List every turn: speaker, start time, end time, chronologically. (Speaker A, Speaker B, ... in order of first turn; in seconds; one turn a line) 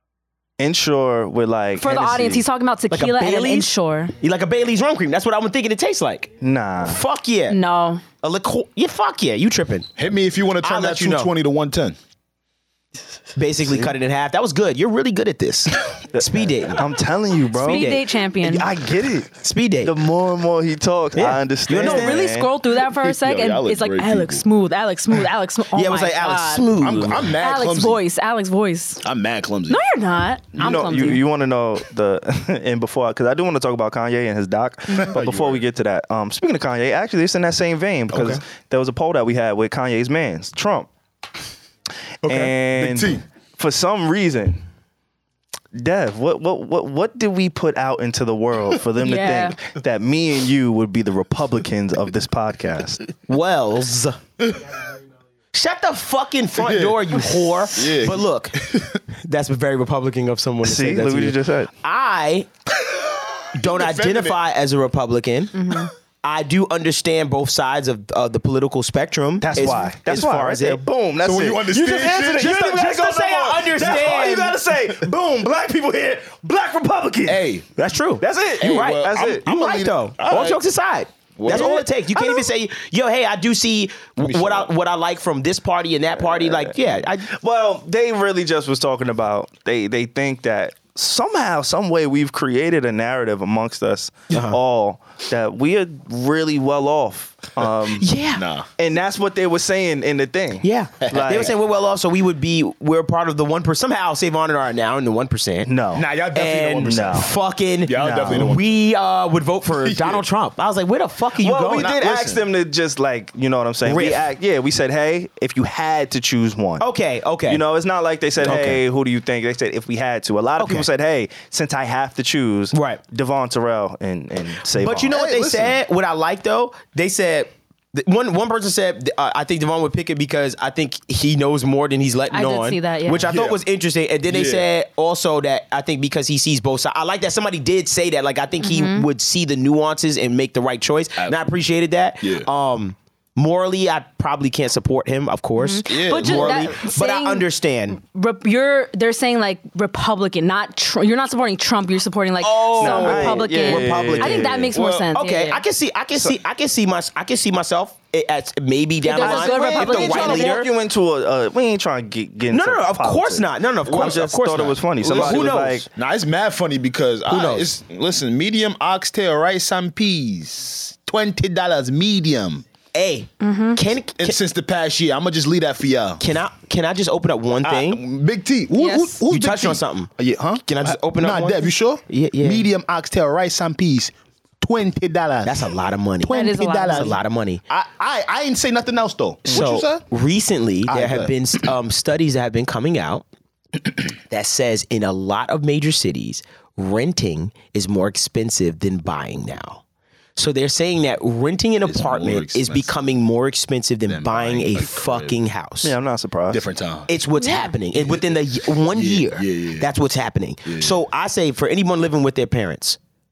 Speaker A: 0.6-2.4
Speaker B: 1.8-4.1
Speaker C: 2.9-6.3
Speaker A: 6.4-7.0
Speaker C: 6.8-7.6
Speaker B: 7.5-8.0
Speaker C: 8.2-9.9
Speaker D: 10.0-11.9
Speaker C: 10.6-11.3
Speaker C: 13.3-16.8
Speaker A: 13.7-13.9
Speaker A: 16.1-22.5
Speaker B: 17.6-18.7
Speaker C: 17.6-17.9
Speaker C: 19.4-19.9
Speaker C: 21.1-22.2
Speaker B: 21.7-26.7
Speaker D: 22.7-24.4
Speaker C: 25.7-27.3
Speaker D: 26.8-28.0
Speaker B: 27.4-29.0
Speaker D: 29.0-29.8
Speaker B: 29.7-31.2
Speaker A: 30.6-40.9
Speaker D: 34.9-35.6
Speaker D: 38.1-38.4
Speaker D: 42.2-43.2
Speaker A: 42.2-44.6
Speaker A: 45.7-53.0
Speaker B: 49.0-49.5
Speaker C: 53.3-54.2
Speaker C: 55.5-62.5
Speaker D: 56.6-59.0
Speaker A: 60.6-61.7
Speaker C: 63.5-70.8
Speaker D: 63.6-64.4
Speaker B: 65.6-65.9
Speaker A: 69.4-77.5
Speaker D: 71.2-72.6
Speaker C: 71.7-74.6
Speaker D: 77.2-77.7
Speaker C: 77.8-87.3
Speaker A: 78.2-79.5
Speaker D: 78.6-80.6
Speaker D: 81.3-81.8
Speaker A: 81.5-82.0
Speaker D: 84.2-84.7
Speaker A: 86.2-98.1
Speaker C: 94.3-94.6
Speaker C: 98.0-98.4
Speaker D: 98.3-98.7
Speaker A: 98.8-101.5
Speaker C: 100.6-105.7
Speaker D: 101.1-101.4
Speaker A: 105.6-106.1
Speaker D: 105.9-107.3
Speaker C: 106.3-111.9
Speaker A: 106.8-107.3
Speaker D: 107.8-108.7
Speaker A: 108.0-108.5
Speaker D: 109.7-110.2
Speaker A: 111.4-116.8
Speaker D: 111.7-112.4
Speaker C: 113.8-114.3
Speaker C: 116.8-117.6
Speaker A: 117.5-125.2
Speaker C: 118.4-118.8
Speaker C: 120.6-120.9
Speaker C: 122.7-123.0
Speaker C: 124.7-148.0
Speaker D: 125.1-125.8
Speaker B: 132.3-133.2
Speaker D: 133.2-133.6
Speaker D: 134.2-134.7
Speaker B: 138.6-139.1
Speaker D: 141.2-141.4
Speaker D: 142.2-142.5
Speaker B: 145.6-147.4
Speaker D: 145.9-146.7
Speaker B: 148.0-155.6
Speaker C: 152.4-160.7
Speaker A: 152.8-154.7
Speaker D: 154.7-155.0
Speaker B: 159.0-160.6
Speaker A: 159.2-165.9
Speaker C: 162.5-165.8
Speaker D: 165.0-172.6
Speaker C: 167.3-167.7
Speaker C: 172.9-174.4
Speaker B: 173.4-173.8
Speaker D: 174.2-176.2
Speaker C: 176.2-178.0
Speaker D: 177.6-190.0
Speaker B: 178.7-179.2
Speaker C: 179.2-180.1
Speaker C: 180.6-182.7
Speaker C: 185.4-187.6
Speaker B: 186.3-187.2
Speaker C: 189.5-193.2
Speaker D: 190.9-191.3
Speaker C: 194.3-199.8
Speaker C: 200.3-205.9
Speaker D: 201.8-202.9
Speaker D: 204.1-205.4
Speaker A: 205.8-206.6
Speaker D: 206.5-207.1
Speaker C: 207.1-213.0
Speaker B: 207.4-207.7
Speaker D: 207.9-209.9
Speaker D: 210.7-211.0